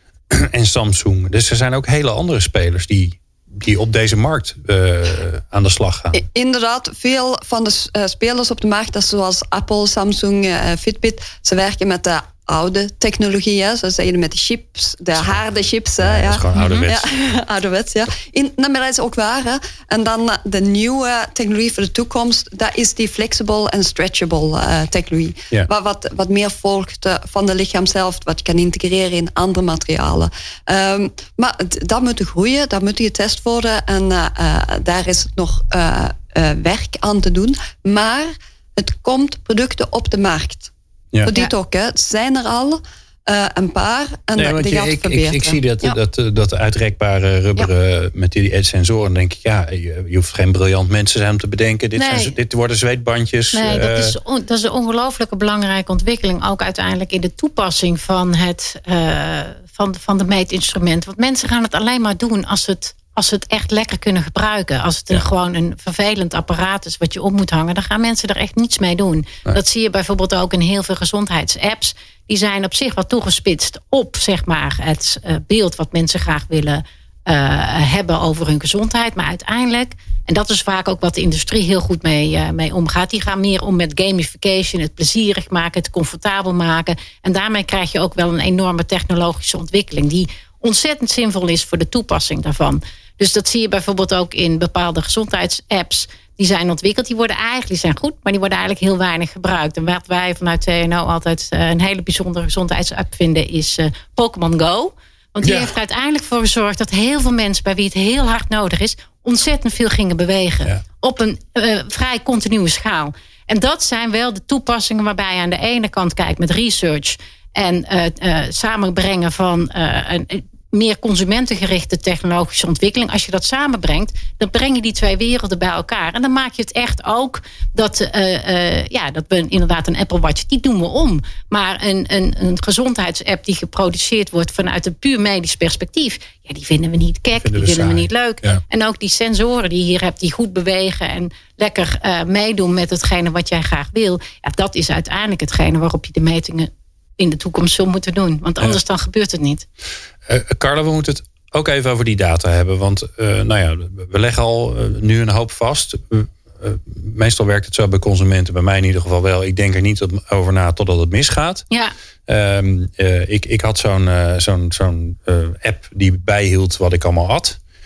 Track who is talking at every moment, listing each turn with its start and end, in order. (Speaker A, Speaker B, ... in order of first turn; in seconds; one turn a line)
Speaker A: 0.3-6.2
Speaker B: 6.1-40.7
Speaker A: 15.2-15.4
Speaker A: 16.0-17.0
Speaker C: 16.6-16.9
Speaker B: 41.2-46.0
Speaker A: 44.4-54.2
Speaker C: 52.0-52.3
Speaker C: 53.5-149.7
Speaker A: 105.4-105.7
Speaker A: 137.4-138.6
Speaker A: 150.3-161.7
Speaker A: 162.3-167.6